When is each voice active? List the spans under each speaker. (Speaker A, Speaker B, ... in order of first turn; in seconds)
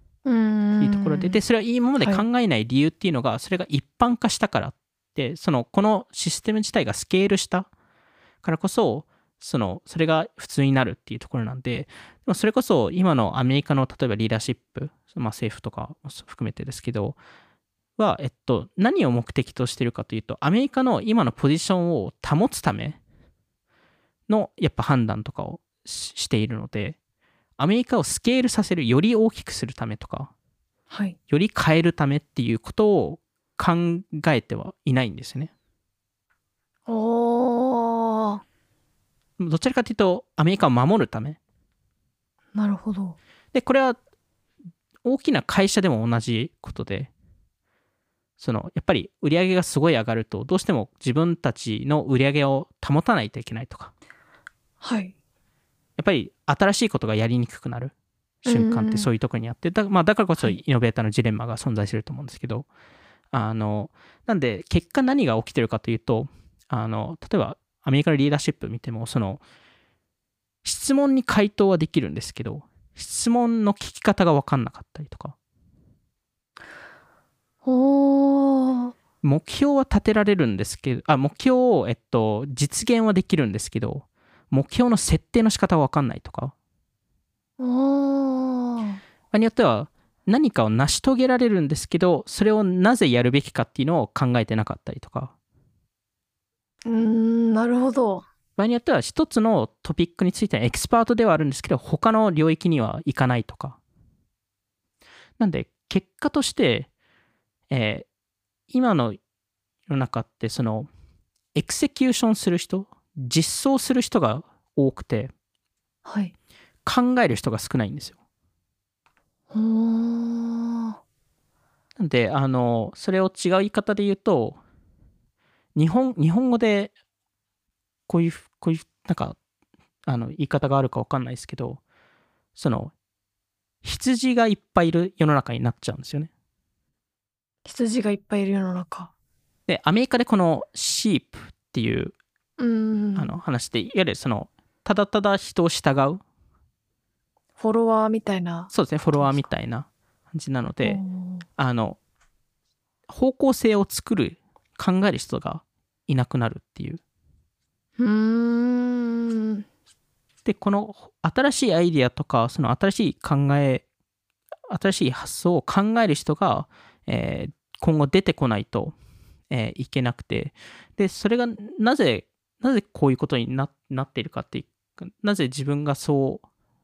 Speaker A: 0.2-1.4, 2.0-2.2, 30.9-31.2, 36.9-38.4, 42.5-43.2, 54.8-55.1, 58.5-59.1, 77.6-78.9, 87.6-89.0, 96.8-98.2, 116.0-116.3, 119.5-121.0, 137.7-139.1, 142.6-143.4, 147.6-149.5, 150.8-151.4, 158.0-159.6
Speaker B: 0.8-7.7, 8.4-17.2, 18.0-23.0, 24.3-27.0, 27.6-30.3, 31.3-35.5, 39.4-41.4, 43.5-44.0, 45.0-47.1, 48.4-53.9, 56.0-57.9, 58.5-62.7, 63.3-69.4, 70.6-75.4, 79.2-86.5, 89.3-95.3, 98.6-103.8, 105.4-106.9, 107.7-108.1, 108.7-109.2, 109.9-110.9, 111.5-115.3, 116.8-118.2, 122.0-124.6, 125.8-126.9, 128.1-129.4, 130.1-131.8, 132.6-132.9, 133.8-136.3, 139.7-142.1, 143.2-146.2, 148.7-151.0, 151.6-152.0, 153.1-157.0, 160.4-163.8, 164.7-168.9, 169.5-176.4